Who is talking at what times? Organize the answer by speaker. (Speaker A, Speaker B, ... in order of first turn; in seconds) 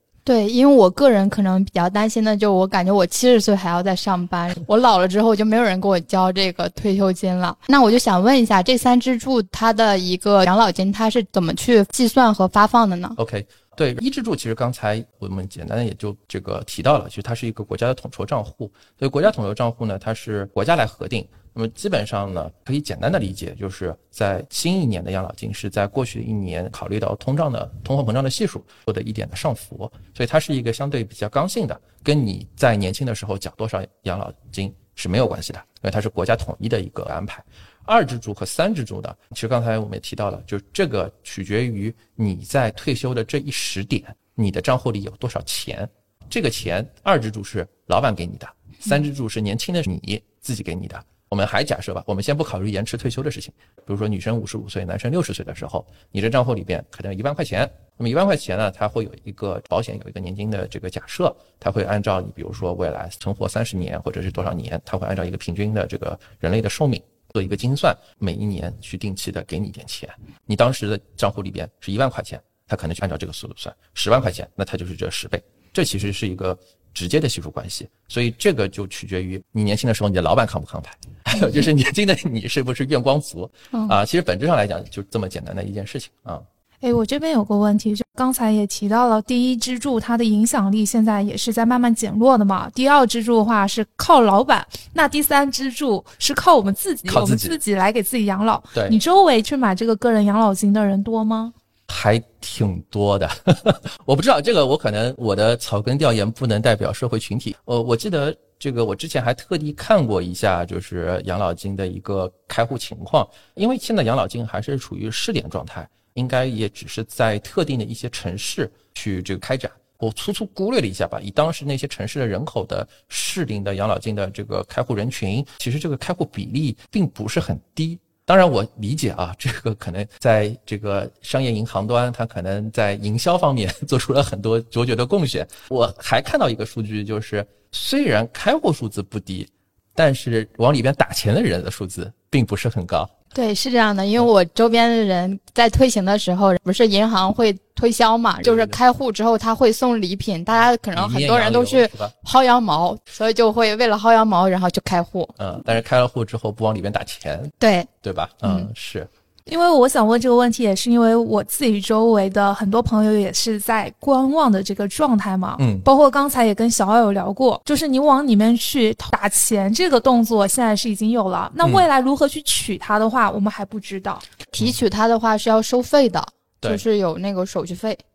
Speaker A: 0.2-13.2, 143.3-155.3, 157.6-157.9, 174.6-178.0
Speaker B: 13.2-86.5, 97.0-97.6, 101.9-143.1, 148.4-148.8, 150.9-152.1, 155.4-159.1, 165.6-165.8, 174.5-174.8
Speaker C: 86.8-101.5, 159.5-174.2